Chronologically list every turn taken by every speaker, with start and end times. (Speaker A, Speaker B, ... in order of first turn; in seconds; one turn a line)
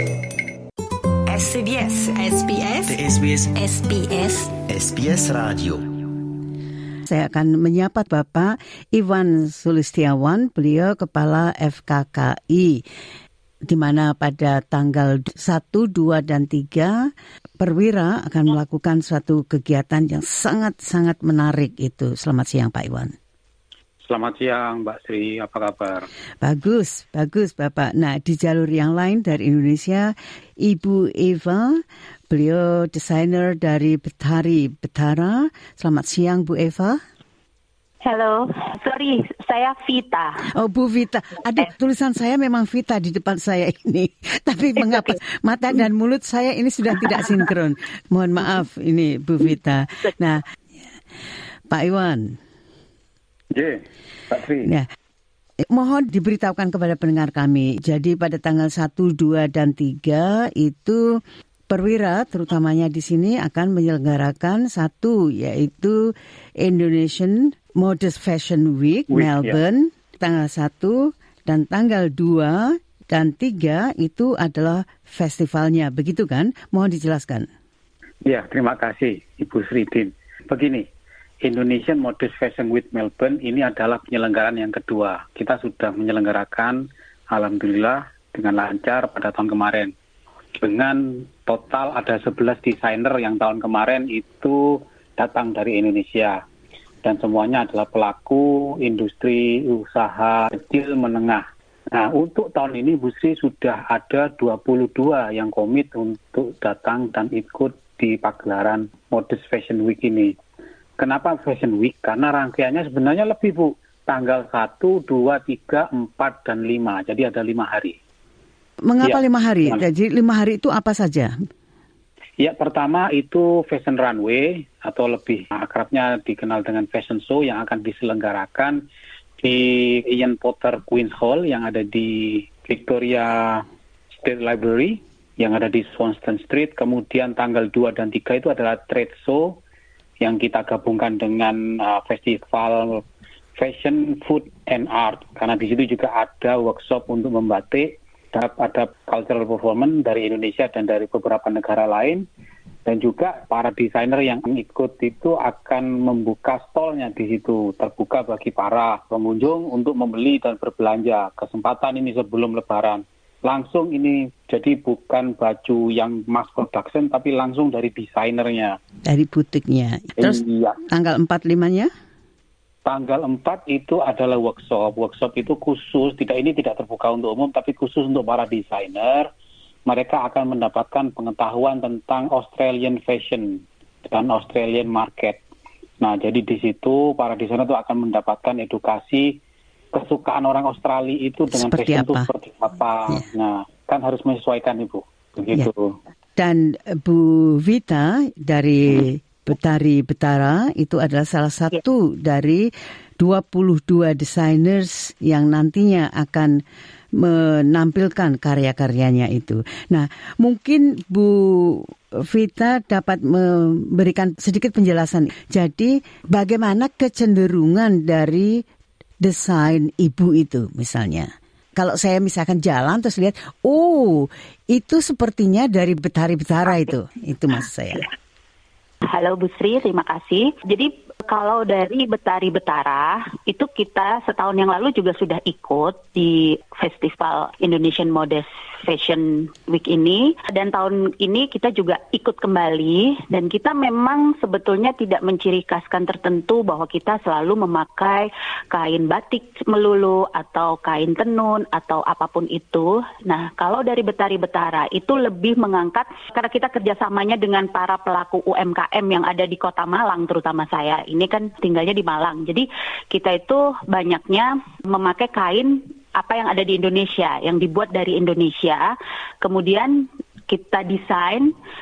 Speaker A: 1.3-4.5
Speaker B: 2.8-3.6
Speaker B: 4.6-6.0
Speaker C: 7.1-12.8
Speaker C: 13.6-23.1
Speaker D: 24.1-26.1
Speaker C: 26.4-37.0
Speaker E: 38.0-40.5
Speaker C: 40.5-50.4
Speaker C: 51.7-52.4
Speaker D: 53.5-54.7
Speaker C: 55.7-61.0
Speaker C: 61.7-77.5
Speaker D: 69.1-69.6
Speaker D: 78.2-80.8
Speaker D: 81.4-89.9
Speaker D: 90.6-96.4
Speaker D: 97.0-110.3
Speaker D: 111.0-118.0
Speaker C: 118.9-121.3
Speaker D: 119.0-119.8
Speaker D: 122.4-128.8
Speaker D: 129.4-133.6
Speaker D: 134.2-139.6
Speaker D: 140.2-143.0
Speaker D: 143.6-152.2
Speaker D: 152.8-168.8
Speaker C: 169.1-171.9
Speaker D: 170.2-170.8
Speaker D: 172.8-179.3
Speaker D: 179.9-185.4
Speaker D: 186.0-189.4
Speaker D: 189.9-196.0
Speaker C: 191.5-192.3
Speaker C: 196.4-202.7
Speaker C: 203.2-206.6
Speaker C: 207.2-218.6
Speaker C: 219.2-228.1
Speaker E: 229.1-268.9
Speaker E: 269.4-271.5